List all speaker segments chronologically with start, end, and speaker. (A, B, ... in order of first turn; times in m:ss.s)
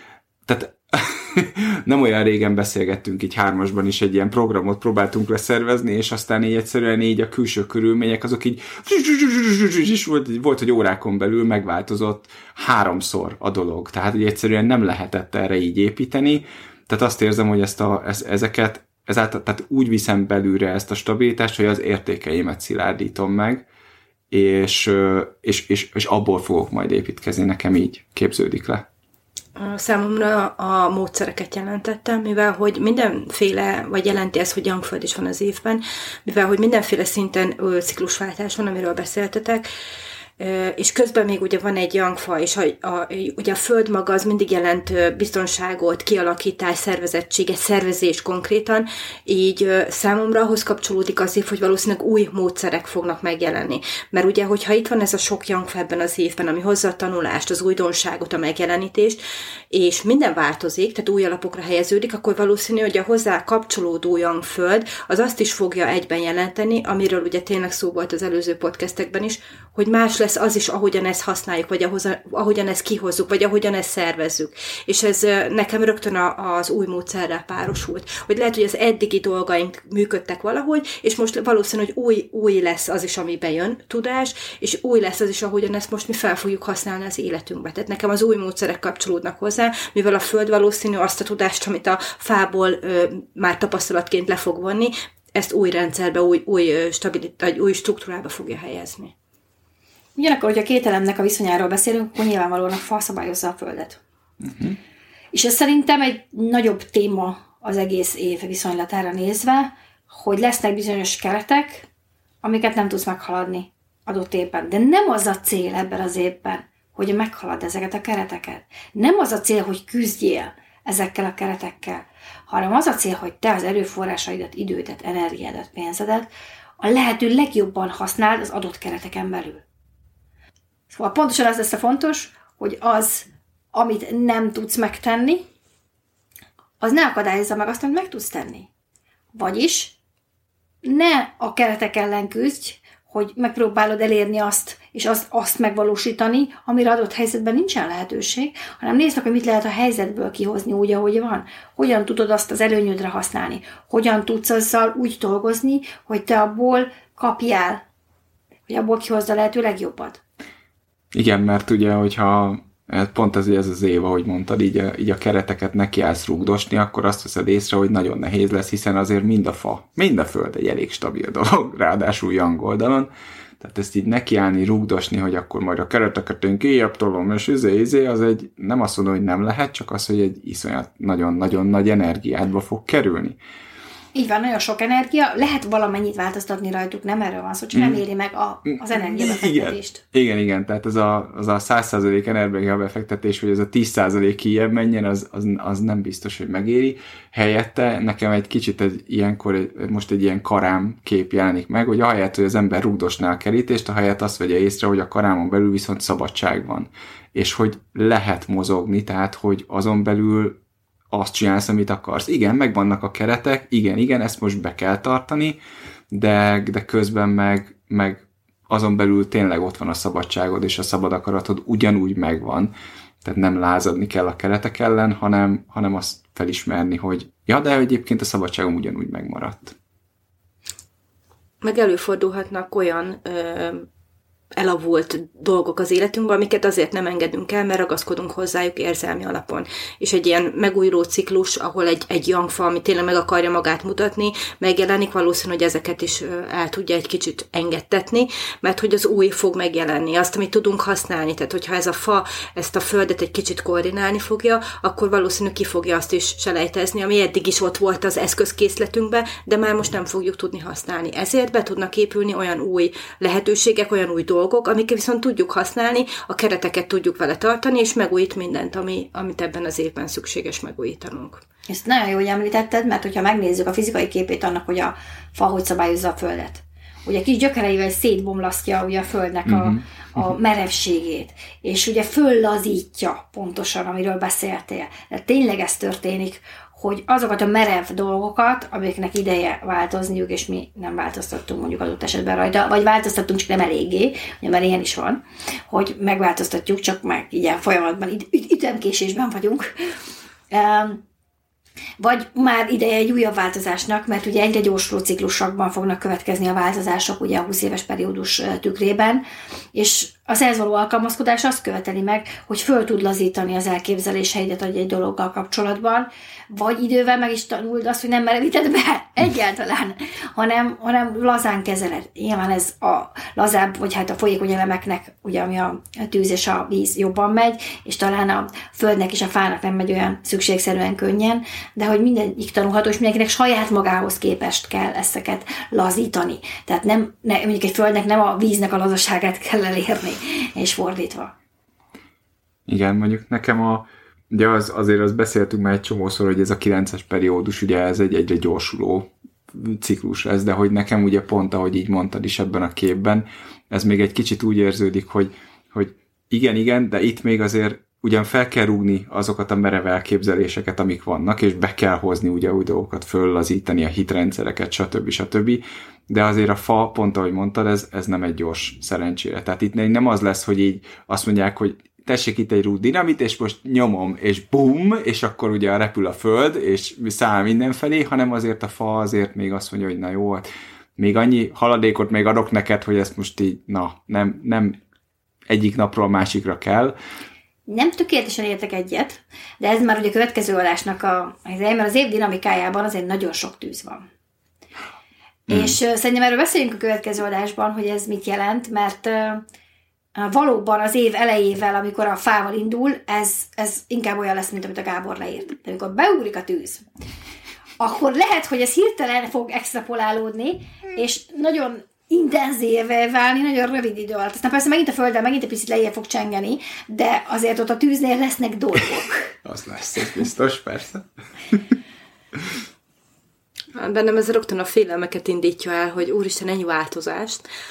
0:00.4-0:23.6 A
0:24.3-0:28.8 A
0:29.6-0:39.6 B
0:40.4-1:39.1 B
1:40.2-1:44.0 C
1:45.3-1:51.9 C
1:52.4-2:06.3 C
2:06.8-2:09.6 C
2:10.9-2:15.4 C
2:16.8-2:18.7 C
2:19.3-2:20.0 C
2:20.8-2:37.8 C
2:38.7-2:40.2 C
2:41.1-3:03.4 A
3:04.1-3:10.0 C
3:07.7-3:08.0 A
3:08.7-3:30.6 A
3:31.1-3:35.6 A
3:36.1-3:42.7 A
3:43.2-3:49.7 A
3:51.6-3:53.9 B
3:54.6-4:31.4 B
4:31.7-4:59.7 C
4:39.4-4:40.3 A
5:00.5-5:01.0 C
5:02.0-5:41.3 C
5:42.7-6:20.4 A
6:21.0-6:24.8 A
6:25.5-6:26.9 A
6:27.7-6:34.0 C
6:35.5-6:35.8 A
6:35.5-6:39.4 C
6:40.1-6:46.8 C
6:47.8-6:59.3 C
6:59.4-7:01.6 A
7:03.7-7:07.4 B